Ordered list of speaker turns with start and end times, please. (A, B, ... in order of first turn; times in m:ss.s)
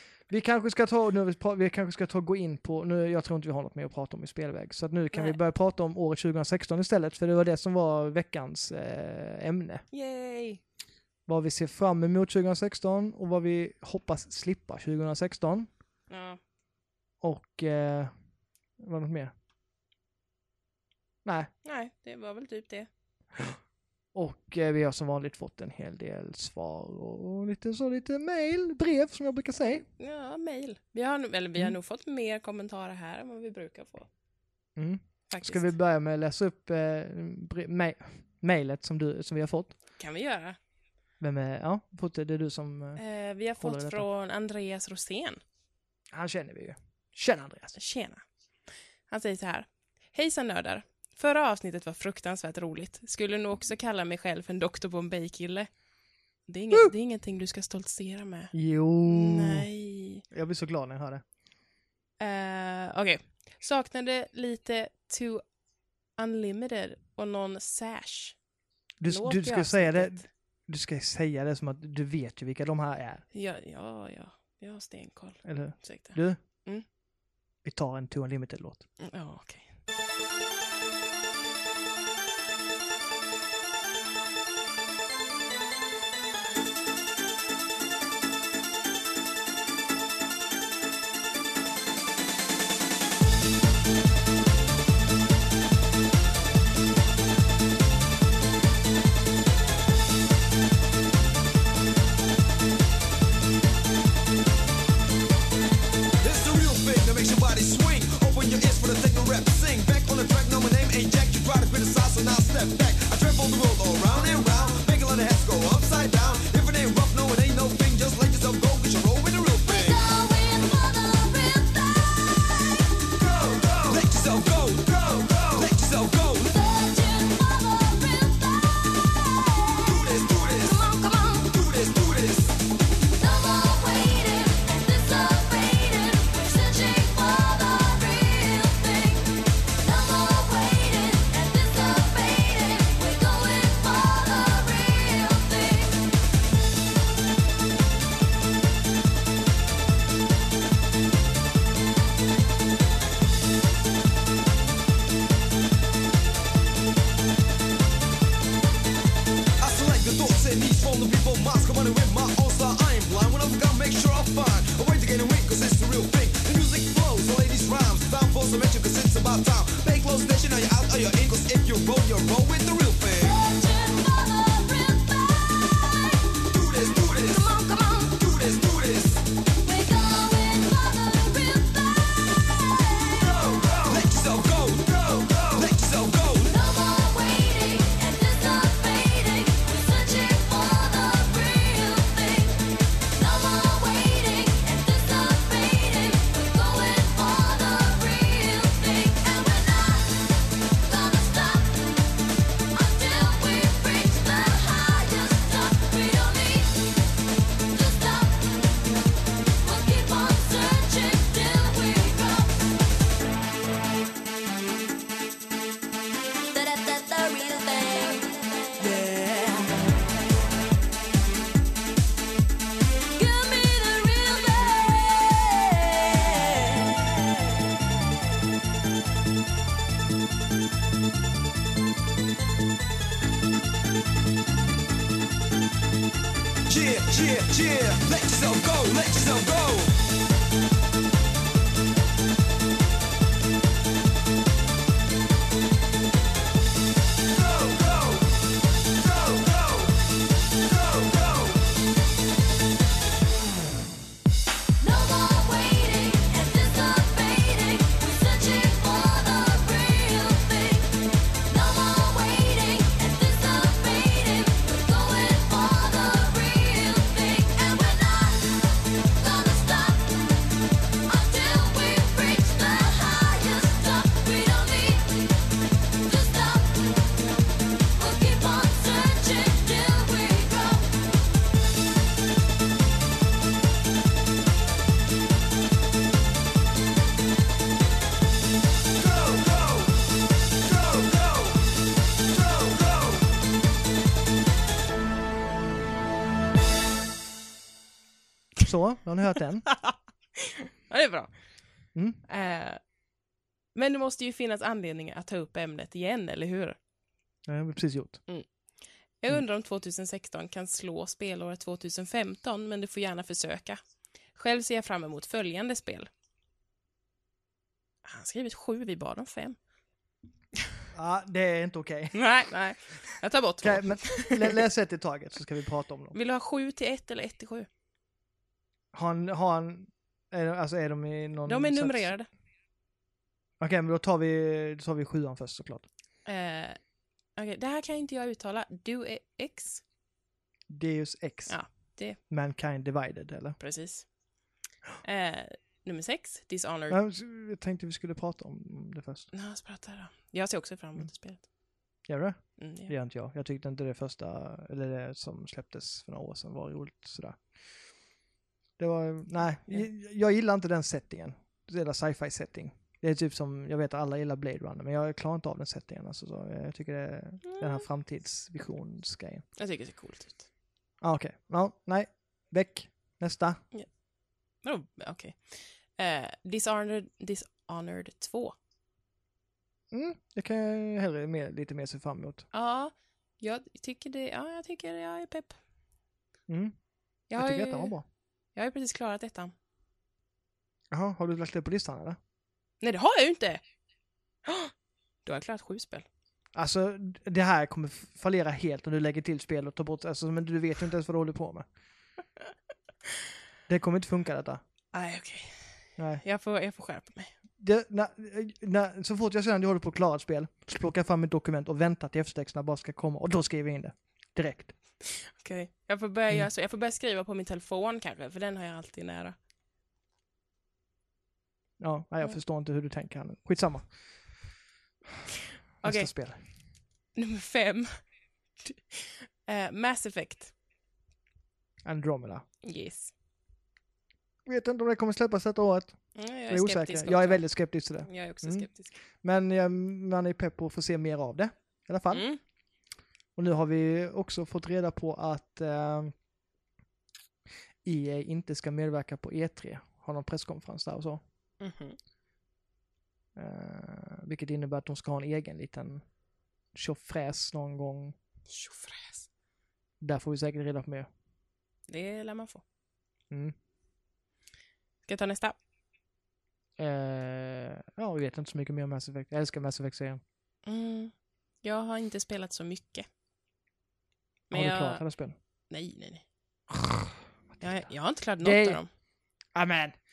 0:00.3-0:09.8 A
0:05.1-0:05.4 B
0:09.9-0:10.6 B
0:11.3-0:15.7 A
0:16.1-0:16.4 B
0:17.2-0:18.1 A
0:18.8-0:19.3 A
0:21.2-0:21.5 A
0:21.6-0:22.9 B
0:24.1-0:29.8 A
0:30.0-0:34.1 B
0:34.8-0:39.7 A
0:35.3-0:35.7 B
0:40.0-0:40.6 B
0:41.2-0:43.0 A
0:43.0-0:45.4 B
0:43.6-0:44.0 A
0:46.1-0:47.7 A
0:47.7-0:48.2 B
0:49.1-0:55.7 B
0:56.5-0:58.5 B
0:58.5-0:59.7 A
0:59.0-1:00.2 B
1:00.3-1:01.2 A
1:02.2-1:05.4 B
1:06.2-1:08.4 B
1:09.0-1:13.2 A
1:09.0-1:10.2 B
1:13.3-1:16.8 B
1:15.4-1:16.4 A
1:17.6-1:18.8 A
1:19.0-1:19.7 B
1:46.2-2:00.0 C
1:59.7-2:02.6 D
2:03.8-2:06.5 C
2:06.4-2:10.0 D
2:09.8-2:10.8 C
2:10.6-2:11.6 D
2:11.5-2:12.5 C
2:13.0-2:26.0 D
2:39.6-2:53.4 C
2:53.2-2:56.3 D
2:56.5-2:57.4 C
2:57.3-2:58.2 D
2:58.1-2:59.2 C
2:59.6-3:03.4 D
3:03.8-3:06.5 C
3:06.5-3:22.0 D
3:22.7-3:26.9 D
3:27.7-3:28.8 D
3:29.6-3:32.6 D
3:36.5-3:39.3 D
3:43.1-3:46.2 D
3:56.7-3:59.9 C
4:14.8-4:30.4 D
4:31.1-4:35.4 D
4:36.0-4:37.1 D
4:37.9-4:40.9 D
4:58.6-4:59.7 A
4:59.7-5:01.4 B
5:01.9-5:02.2 A
5:02.3-5:02.8 B
5:03.7-5:06.8 B
5:07.5-5:08.2 A
5:09.2-5:13.8 B
5:14.3-5:16.1 B
5:18.0-5:19.6 B
5:20.9-5:22.2 A
5:22.1-5:24.6 B
5:23.6-5:26.2 A
5:26.1-5:27.7 B
5:28.9-5:32.1 A
5:31.4-5:32.3 B
5:33.6-5:35.9 A
5:36.2-5:36.8 B
5:37.4-5:39.8 B
5:40.7-5:41.6 A
5:41.5-5:42.2 B
5:42.3-5:43.6 A
5:43.6-5:44.1 B
5:45.0-5:47.0 B
5:46.9-5:49.3 A
5:49.3-5:51.4 B
5:52.1-5:57.4 A
5:52.6-5:52.9 B
5:58.8-6:09.4 A
6:07.4-6:07.8 B
6:09.6-6:10.5 B
6:11.0-6:13.6 A
6:14.6-6:18.6 B
6:19.9-6:22.4 A
6:22.5-6:25.6 B
6:26.5-6:26.8 A
6:27.3-6:27.9 B
6:27.3-6:28.0 A
6:28.5-6:29.5 B
6:30.9-6:32.2 A
6:32.8-6:33.6 B
6:34.4-6:34.7 B
6:35.2-6:36.0 B
6:36.5-6:41.7 A
6:43.7-6:44.6 A
6:44.9-6:47.3 B
6:46.0-6:46.2 A
6:47.6-6:54.7 A
6:55.0-6:59.4 B
7:01.8-7:03.9 A
7:05.8-7:06.1 B
7:05.8-7:06.4 A
7:07.1-7:08.0 B
7:08.6-7:10.5 B
7:11.8-7:12.4 A
7:12.6-7:13.1 B
7:14.4-7:18.7 A
7:16.1-7:17.5 B
7:18.0-7:18.9 B
7:19.2-7:22.3 A
7:22.1-7:22.4 B
7:23.4-7:26.1 A
7:27.8-7:31.2 A
7:31.6-7:32.0 B
7:33.4-7:36.0 A
7:36.7-7:38.1 A
7:38.5-7:39.3 B
7:40.0-7:41.1 A
7:41.9-7:42.6 B
7:45.0-7:45.6 B
7:46.8-7:50.2 A
7:50.6-7:53.1 B
7:54.5-7:55.0 B
7:54.5-7:55.4 A
7:55.7-7:56.2 B
7:56.7-7:57.8 A
7:57.6-7:58.9 B
7:58.4-7:58.8 A
7:59.5-7:59.9 A